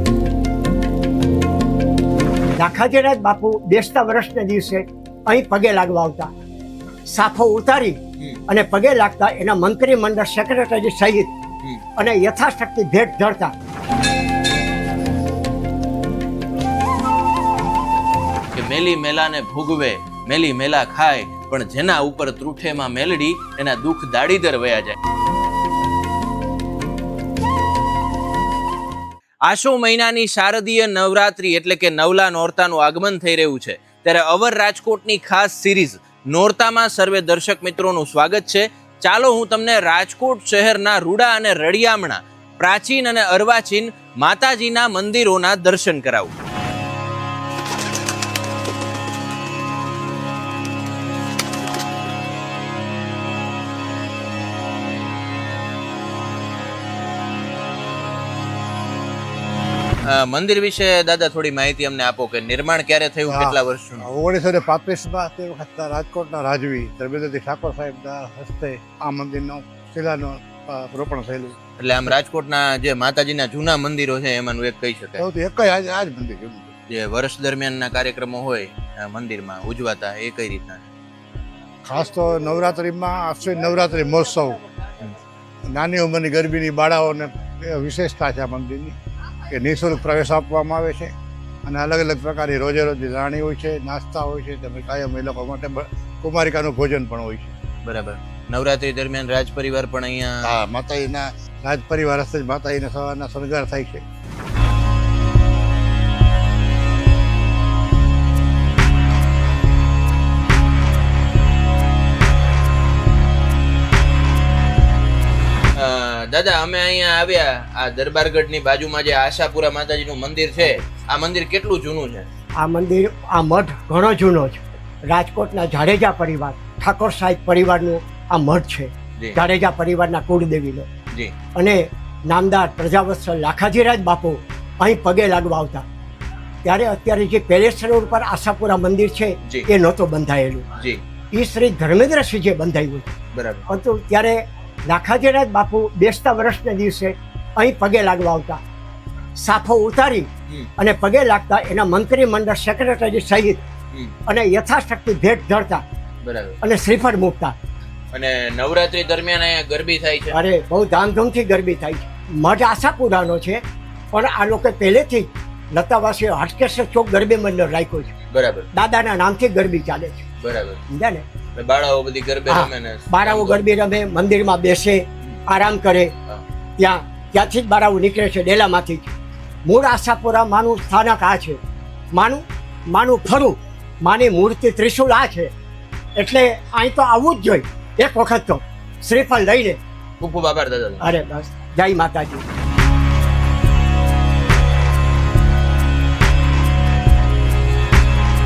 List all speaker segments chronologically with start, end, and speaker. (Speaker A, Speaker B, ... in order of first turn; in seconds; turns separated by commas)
Speaker A: 2.6-6.3, Speaker A: 7.1-11.3, Speaker A: 12.0-13.5, Speaker B: 18.5-24.9, Speaker B: 29.5-46.3, Speaker B: 60.0-64.0, Speaker C: 63.3-71.6, Speaker B: 71.8-75.2, Speaker C: 75.2-76.7, Speaker B: 76.9-80.9, Speaker C: 81.8-84.6, Speaker C: 85.7-89.0, Speaker C: 89.5-91.1, Speaker C: 91.7-97.5, Speaker B: 97.8-100.5, Speaker C: 100.4-104.0, Speaker B: 115.8-122.3, Speaker A: 122.6-130.9, Speaker A: 131.5-135.8, Speaker A: 136.6-140.7, Speaker A: 141.3-143.1, Speaker B: 143.3-143.7, Speaker A: 143.7-144.4, Speaker A: 144.9-148.6, Speaker A: 149.4-153.6, Speaker A: 154.3-155.8, Speaker B: 156.2-156.6, Speaker A: 156.6-157.6, Speaker B: 158.1-160.3, Speaker A: 160.3-163.6, Speaker A: 164.1-168.1, Speaker B: 168.3-168.7, Speaker A: 168.7-170.2, Speaker B: 170.4-170.8, Speaker A: 170.9-171.2, Speaker B: 171.6-173.6, Speaker A: 172.5-176.1, Speaker A: 176.8-179.1, Speaker A: 179.6-181.6, Speaker A: 182.1-185.5, Speaker A: 186.2-189.8, Speaker B: 190.2-191.1, Speaker A: 191.0-192.4